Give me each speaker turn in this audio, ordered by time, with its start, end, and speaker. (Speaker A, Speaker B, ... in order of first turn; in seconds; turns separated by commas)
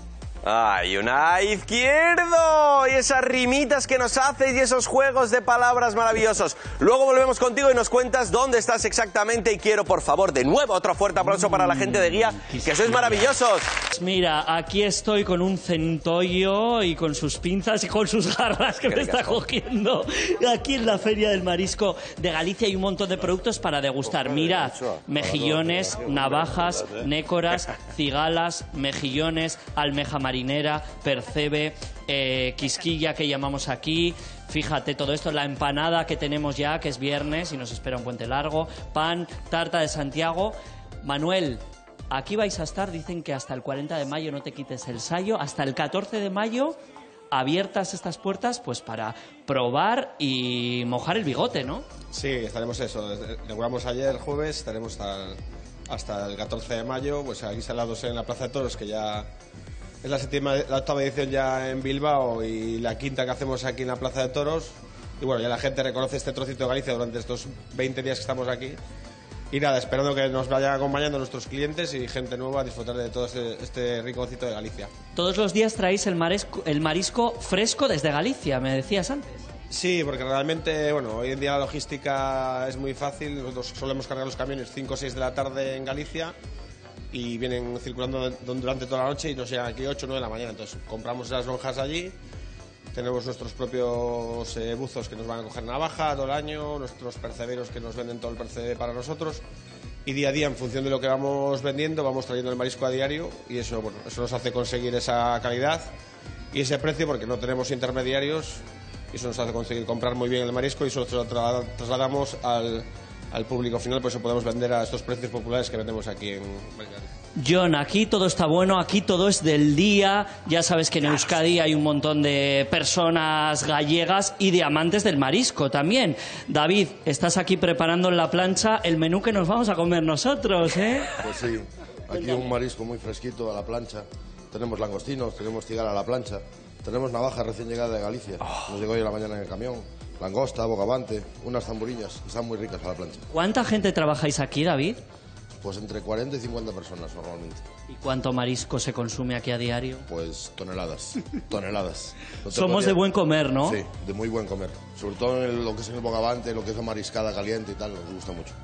Speaker A: 0.4-13.7, Speaker B: 11.4-13.3, Speaker B: 13.9-46.8, Speaker A: 18.9-19.4, Speaker C: 24.3-25.7, Speaker B: 47.3-51.9, Speaker D: 52.1-55.4, Speaker D: 55.9-59.3, Speaker D: 60.0-68.8, Speaker D: 69.5-74.9, Speaker B: 75.2-79.4, Speaker D: 79.7-86.3, Speaker D: 87.1-92.2, Speaker D: 92.9-99.4, Speaker D: 100.0-105.9, Speaker D: 106.5-117.1, Speaker B: 117.4-131.2, Speaker C: 131.2-143.3, Speaker B: 143.3-145.0, Speaker C: 145.6-147.6, Speaker B: 147.9-150.1, Speaker C: 150.1-153.0, Speaker B: 152.5-153.8, Speaker C: 153.6-158.6